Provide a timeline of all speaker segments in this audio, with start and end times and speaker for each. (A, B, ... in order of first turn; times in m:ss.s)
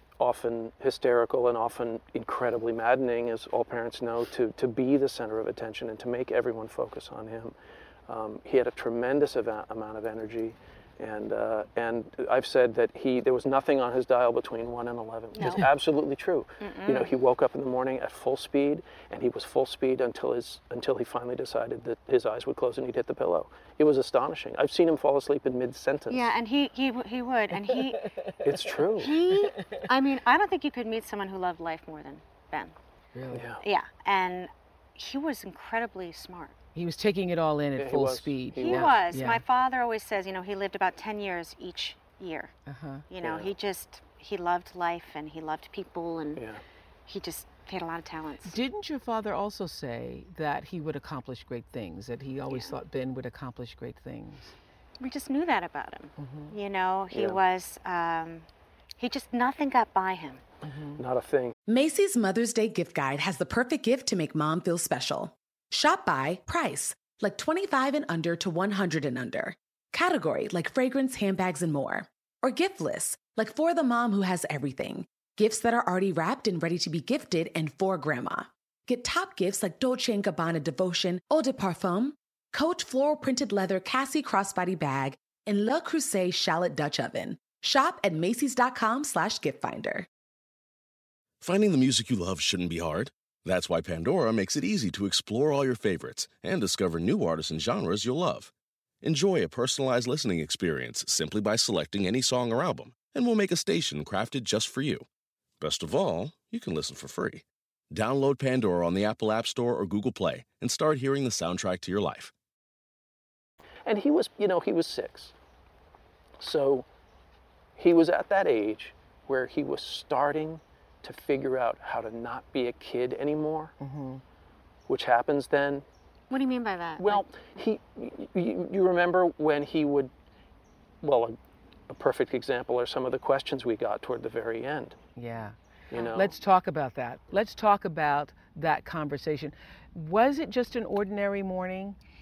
0:00.2-0:07.5 A
0:08.1-0:26.3 A
0:15.3-0:15.7 B
0:15.4-0:15.7 C
0:16.6-0:17.1 B
0:26.1-0:28.1 B
0:27.7-0:28.4 C
0:28.4-0:29.2 A
0:29.0-0:32.7 B
0:29.3-0:29.8 C
0:33.1-0:33.5 C
0:33.3-0:33.6 A
0:33.6-0:36.6 B
0:36.7-0:39.4 C
0:37.8-0:39.0 A
0:38.6-0:42.5 B
0:42.7-0:43.0 C
0:43.1-0:46.4 B
0:43.2-0:43.5 A
0:46.4-0:46.6 A
0:47.1-0:48.6 B
0:48.4-0:54.6 C
0:55.0-0:58.5 B
0:56.2-0:56.5 C
0:57.1-0:57.4 A
0:59.0-1:00.4 B
1:00.6-1:01.0 C
1:01.0-1:01.5 A
1:01.7-1:30.1 D
1:31.4-1:38.5 E
1:39.0-1:45.0 E
1:45.6-1:52.3 E
1:53.8-1:55.3 A
1:56.4-1:56.9 A
1:57.8-2:03.7 A
2:03.8-2:04.2 C
2:04.9-2:05.8 A
2:06.3-2:07.2 B
2:07.0-2:10.1 A
2:11.0-2:11.4 A
2:11.9-2:15.0 A
2:15.2-2:15.6 C
2:15.9-2:16.3 A
2:16.1-2:22.0 C